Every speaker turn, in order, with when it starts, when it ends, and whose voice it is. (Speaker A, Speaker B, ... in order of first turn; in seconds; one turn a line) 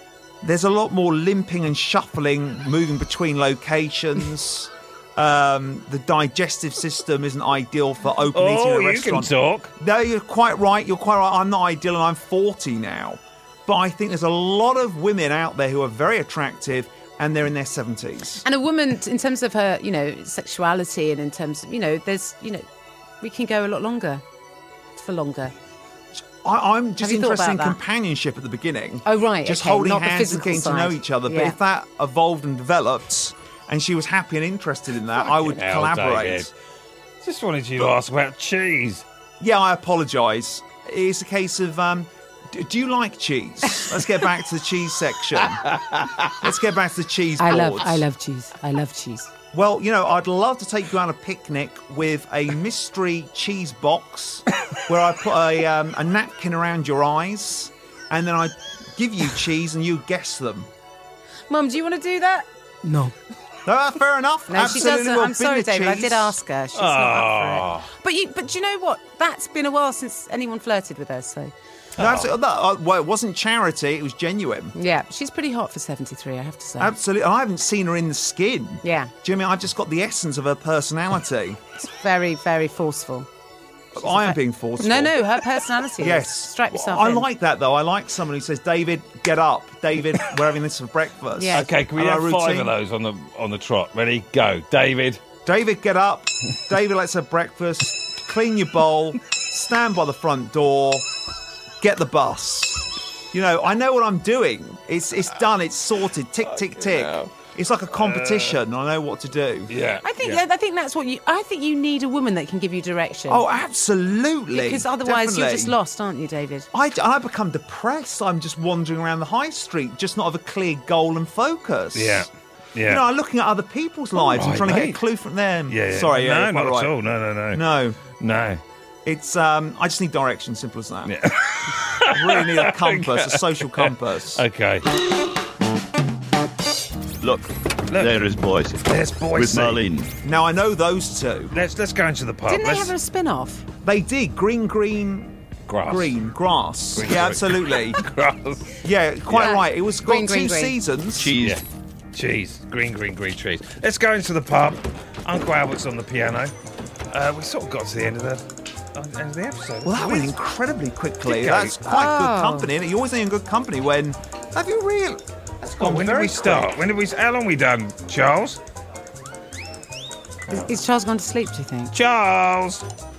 Speaker A: 0.4-18.4
Speaker B: 8.3-9.7
Speaker C: 18.4-22.6
Speaker C: 23.2-24.2
Speaker C: 24.9-25.5
Speaker A: 26.4-36.5
Speaker C: 27.0-27.8
Speaker C: 29.0-31.6
Speaker B: 35.1-36.5
Speaker B: 37.2-39.0
Speaker A: 39.4-48.0
Speaker B: 45.7-46.3
Speaker C: 47.4-49.3
Speaker A: 49.5-60.7
Speaker C: 61.5-63.1
Speaker A: 63.6-66.3
Speaker C: 64.5-71.5
Speaker B: 66.7-67.9
Speaker B: 72.0-72.3
Speaker A: 72.0-74.7
Speaker C: 74.7-76.9
Speaker A: 76.8-81.6
Speaker C: 78.8-79.1
Speaker C: 81.8-83.3
Speaker A: 83.9-85.2
Speaker C: 84.0-87.3
Speaker A: 86.0-92.7
Speaker C: 91.3-91.7
Speaker B: 91.5-95.2
Speaker A: 95.4-101.0
Speaker A: 101.8-109.7
Speaker B: 106.4-107.3
Speaker B: 108.0-108.6
Speaker B: 109.7-110.4
Speaker C: 110.0-113.4
Speaker A: 113.3-115.7
Speaker C: 114.5-116.7
Speaker A: 116.7-122.3
Speaker B: 121.9-123.0
Speaker A: 122.8-126.9
Speaker B: 124.1-125.0
Speaker B: 125.7-128.6
Speaker A: 127.5-128.0
Speaker A: 129.0-131.1
Speaker B: 131.0-134.9
Speaker A: 132.1-134.4
Speaker D: 137.2-140.1
Speaker B: 137.9-138.3
Speaker B: 138.8-139.8
Speaker A: 140.2-141.5
Speaker B: 141.5-142.9
Speaker C: 142.5-143.6
Speaker A: 143.8-145.3
Speaker B: 145.7-146.2
Speaker A: 145.9-148.0
Speaker B: 146.9-149.6
Speaker A: 148.8-151.3
Speaker C: 149.3-150.8
Speaker D: 151.2-151.6
Speaker B: 151.3-151.6
Speaker B: 152.1-156.5
Speaker B: 157.1-160.3
Speaker A: 159.8-166.7
Speaker B: 161.2-161.8
Speaker C: 161.8-162.7
Speaker B: 165.8-168.6
Speaker C: 170.5-171.9
Speaker B: 171.9-172.8